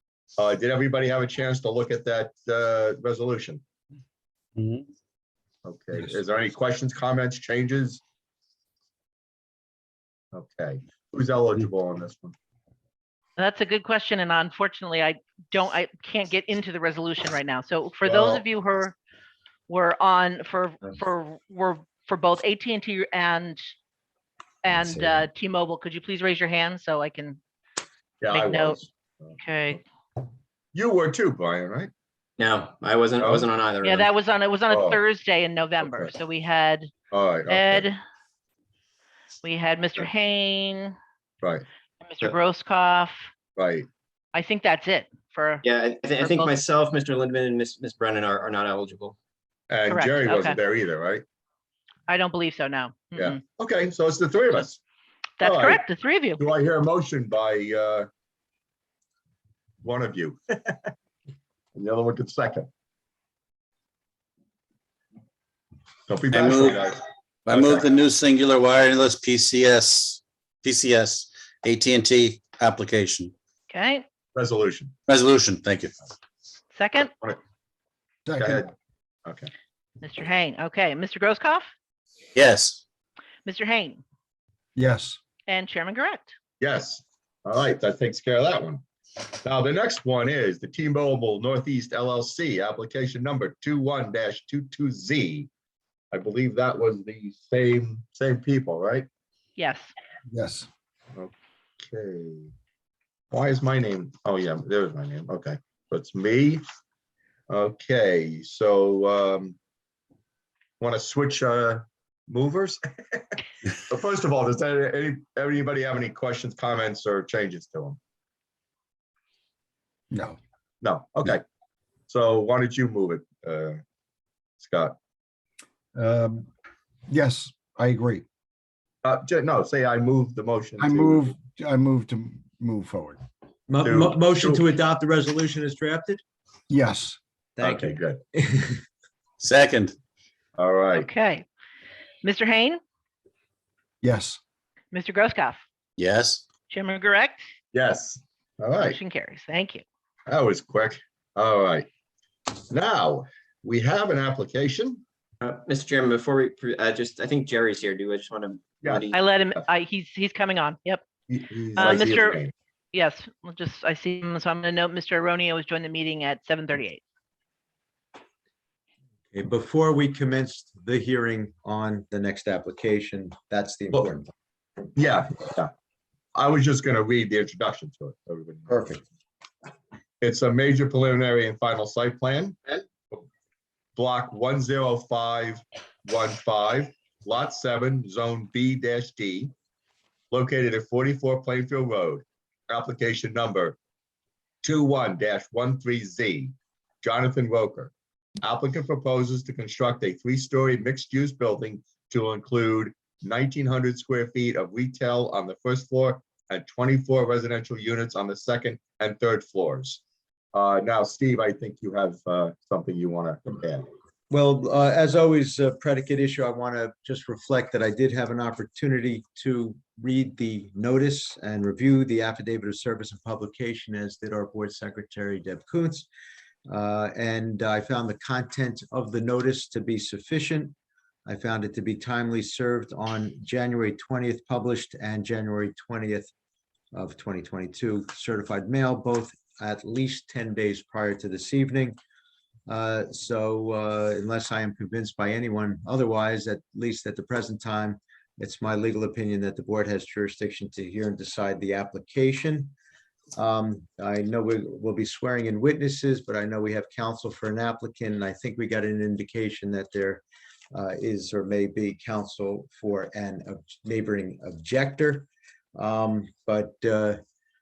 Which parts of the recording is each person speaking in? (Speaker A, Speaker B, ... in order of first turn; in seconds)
Speaker A: 0.4-3.6, 5.6-8.0, 10.3-12.3, 18.0-18.4, 28.2-29.3, 30.7-31.9, 33.2-33.5, 34.7-35.0, 35.8-36.1, 37.1-37.9, 43.6-43.9, 49.7-51.2, 53.2-54.8, 55.4-55.8, 56.4-58.1, 59.8-60.9, 61.8-62.7, 66.1-67.8, 74.3-74.9, 78.4-78.7, 79.3-79.5, 86.6-88.8, 89.4-95.5, 96.1-99.1, 101.2-102.5, 103.3-106.6, 107.5-109.6, 110.8-113.4, 113.9-118.0, 120.8-121.4, 122.1-123.8, 124.6-125.0, 129.0-131.3, 133.8-134.7, 137.6-138.2, 140.6-141.1, 147.7-149.0, 150.3-151.9, 152.7-155.0, 161.3-162.5, 174.9-175.7, 176.3-178.7, 180.2-183.2, 183.9-189.5, 190.3-193.8, 194.6-210.0, 210.5-213.8
Speaker B: 4.6-4.9, 66.3-66.8, 67.5-73.3, 75.1-76.0, 82.4-82.8, 139.4-139.9, 146.0-146.4
Speaker C: 13.4-19.0, 19.7-23.7, 24.6-27.4, 28.3-28.8, 29.4-29.8, 33.8-36.9, 37.5-38.0, 39.4-41.0, 42.0-43.2, 44.3-45.6, 46.2-46.5, 49.9-50.6, 52.1-53.4, 55.4-56.4, 73.7-74.0, 76.7-77.2, 80.0-81.7, 83.5-84.0, 85.5-86.4, 99.6-99.9, 140.9-141.4, 142.2-142.8, 144.9-145.6, 146.7-147.4, 148.8-149.8, 159.1-161.0, 161.8-167.0
Speaker D: 32.4-34.1, 45.6-49.2, 155.4-159.2
Speaker E: 78.3-78.7, 84.8-85.2, 100.3-100.7, 120.1-120.4, 126.0-126.5, 127.1-128.2, 130.8-133.2, 136.7-137.2, 144.0-144.4
Speaker F: 133.7-136.2, 137.6-138.8, 169.3-174.3, 178.7-179.0, 214.3-226.1, 226.7-230.7, 231.2-236.3, 236.9-242.0, 242.7-252.7, 253.3-267.2